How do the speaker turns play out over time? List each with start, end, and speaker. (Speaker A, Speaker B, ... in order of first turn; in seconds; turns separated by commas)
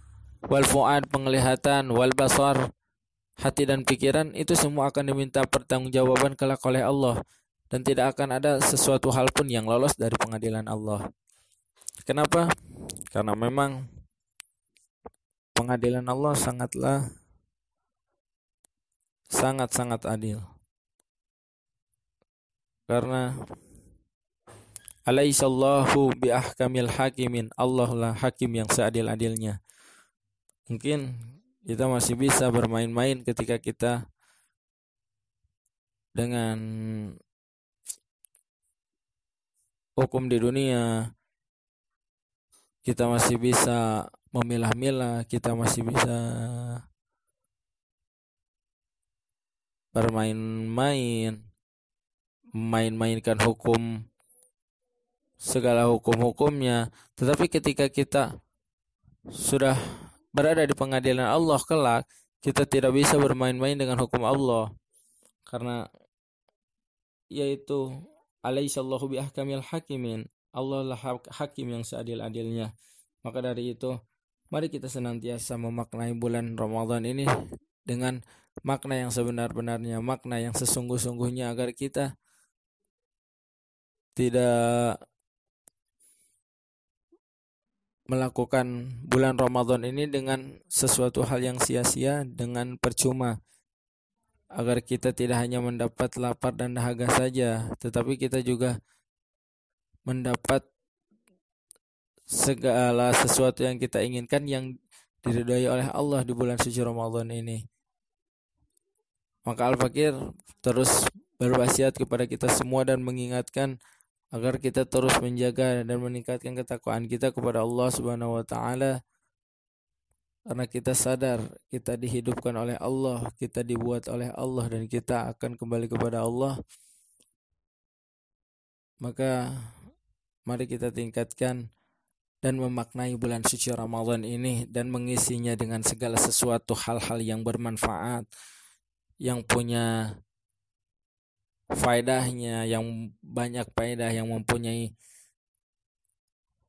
Speaker A: 0.5-2.6, Speaker A: 3.4-7.2, Speaker A: 7.7-11.0, Speaker A: 12.1-12.5, Speaker A: 13.1-13.8, Speaker A: 15.6-17.0, Speaker A: 19.4-20.4, Speaker A: 22.9-23.3, Speaker A: 25.1-29.6, Speaker A: 30.7-31.1, Speaker A: 31.7-34.0, Speaker A: 36.2-37.1, Speaker A: 40.0-41.0, Speaker A: 42.9-46.8, Speaker A: 49.9-51.4, Speaker A: 52.6-53.9, Speaker A: 55.4-58.3, Speaker A: 59.3-59.8, Speaker A: 60.3-64.7, Speaker A: 65.5-65.8, Speaker A: 67.3-67.8, Speaker A: 68.5-72.7, Speaker A: 73.2-74.0, Speaker A: 74.5-77.3, Speaker A: 77.9-82.1, Speaker A: 84.2-85.0, Speaker A: 88.1-93.4, Speaker A: 94.6-98.8, Speaker A: 100.1-100.6, Speaker A: 102.3-104.7, Speaker A: 105.2-107.6, Speaker A: 109.5-113.7, Speaker A: 114.3-119.0, Speaker A: 120.5-126.6, Speaker A: 129.0-129.7, Speaker A: 130.5-131.6, Speaker A: 132.4-138.3, Speaker A: 139.2-139.9, Speaker A: 141.8-144.9